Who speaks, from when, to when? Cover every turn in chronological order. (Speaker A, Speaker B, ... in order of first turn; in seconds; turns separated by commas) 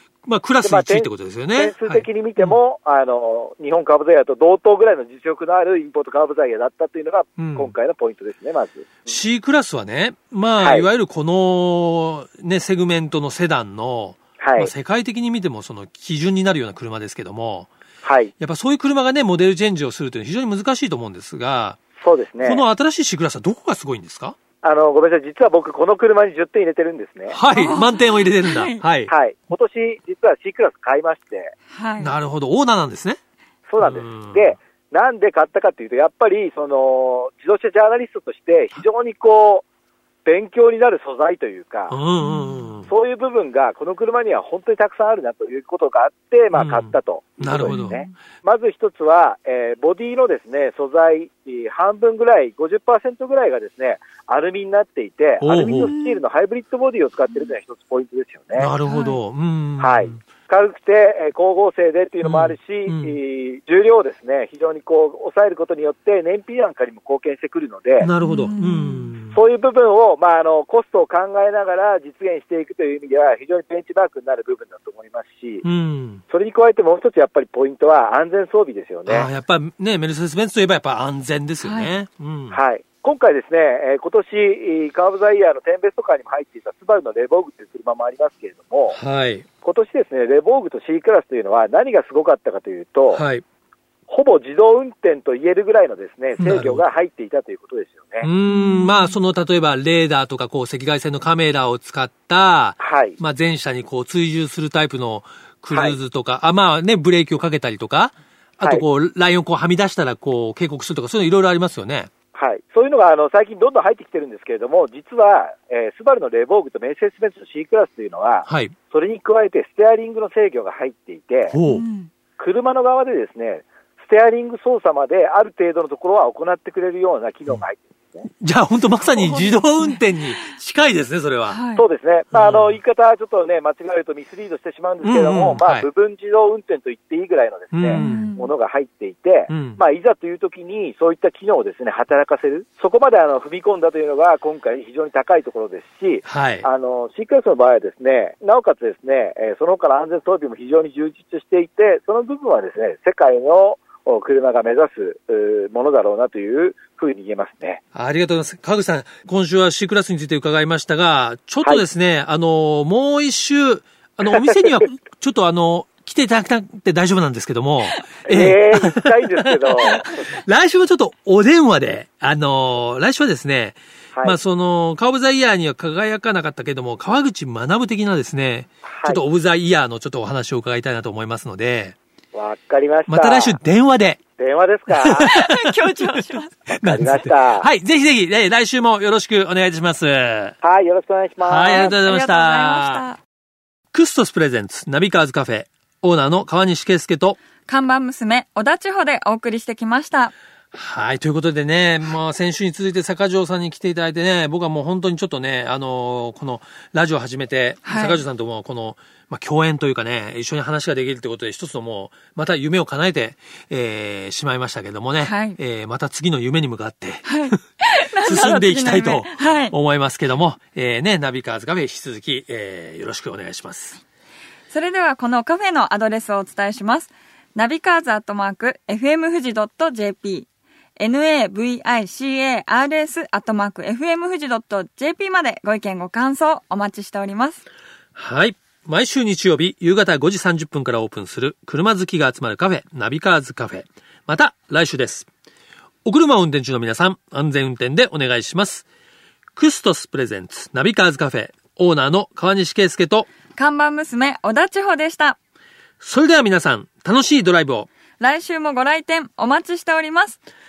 Speaker A: 0.2-2.6, Speaker B: 0.6-9.0, Speaker A: 7.4-7.7, Speaker A: 9.1-17.7, Speaker B: 10.6-10.9, Speaker B: 14.4-14.7, Speaker B: 18.0-18.3, Speaker A: 18.4-21.8, Speaker B: 22.0-22.6, Speaker A: 22.4-24.4, Speaker B: 24.6-27.4, Speaker A: 27.3-29.1, Speaker C: 27.5-28.8, Speaker B: 29.1-31.5, Speaker C: 31.7-32.1, Speaker A: 32.0-33.2, Speaker B: 33.7-39.6, Speaker A: 33.8-34.5, Speaker B: 40.2-42.0, Speaker A: 41.9-42.9, Speaker C: 42.2-42.7, Speaker B: 42.9-58.7, Speaker A: 46.5-48.0, Speaker C: 47.7-48.1, Speaker A: 55.4-55.9, Speaker C: 55.9-56.2, Speaker A: 58.5-60.2, Speaker C: 58.8-59.2, Speaker B: 59.8-68.1, Speaker A: 62.2-63.2, Speaker A: 68.0-69.4, Speaker C: 68.2-69.1, Speaker B: 69.3-75.6, Speaker A: 75.6-76.2, Speaker B: 76.3-79.3, Speaker A: 79.1-82.6, Speaker C: 81.6-81.9, Speaker B: 82.5-89.0, Speaker A: 88.9-89.5, Speaker B: 89.6-93.2, Speaker A: 93.1-93.4, Speaker B: 94.1-98.3, Speaker A: 96.4-96.8, Speaker A: 98.2-112.1, Speaker C: 98.5-99.1, Speaker B: 102.8-103.2, Speaker B: 112.3-121.6, Speaker A: 118.5-118.7, Speaker A: 121.5-121.9, Speaker C: 121.7-122.1, Speaker B: 122.4-128.3, Speaker A: 128.4-131.6, Speaker C: 129.2-130.0, Speaker C: 131.5-131.8, Speaker B: 131.8-157.8, Speaker A: 132.3-132.8, Speaker A: 135.0-135.9, Speaker A: 137.7-138.3, Speaker C: 137.9-138.5, Speaker A: 139.5-139.8, Speaker A: 146.3-146.7, Speaker A: 157.9-182.0, Speaker B: 168.3-170.1, Speaker B: 178.9-179.2, Speaker B: 182.3-183.6, Speaker A: 183.1-184.2, Speaker B: 184.4-185.3, Speaker A: 184.9-186.1, Speaker C: 185.2-186.7, Speaker B: 186.8-187.7, Speaker A: 186.8-190.6, Speaker B: 190.6-191.9, Speaker A: 191.4-193.1, Speaker C: 191.7-193.2, Speaker A: 193.9-197.4, Speaker C: 197.7-200.3, Speaker A: 200.7-217.6, Speaker C: 207.8-208.2, Speaker C: 215.2-215.6, Speaker C: 217.2-219.7, Speaker A: 218.2-224.0, Speaker C: 224.7-237.6, Speaker A: 238.2-245.3, Speaker A: 246.1-248.8, Speaker A: 249.5-253.3, Speaker C: 253.6-255.4, Speaker A: 256.0-257.9, Speaker C: 258.2-260.4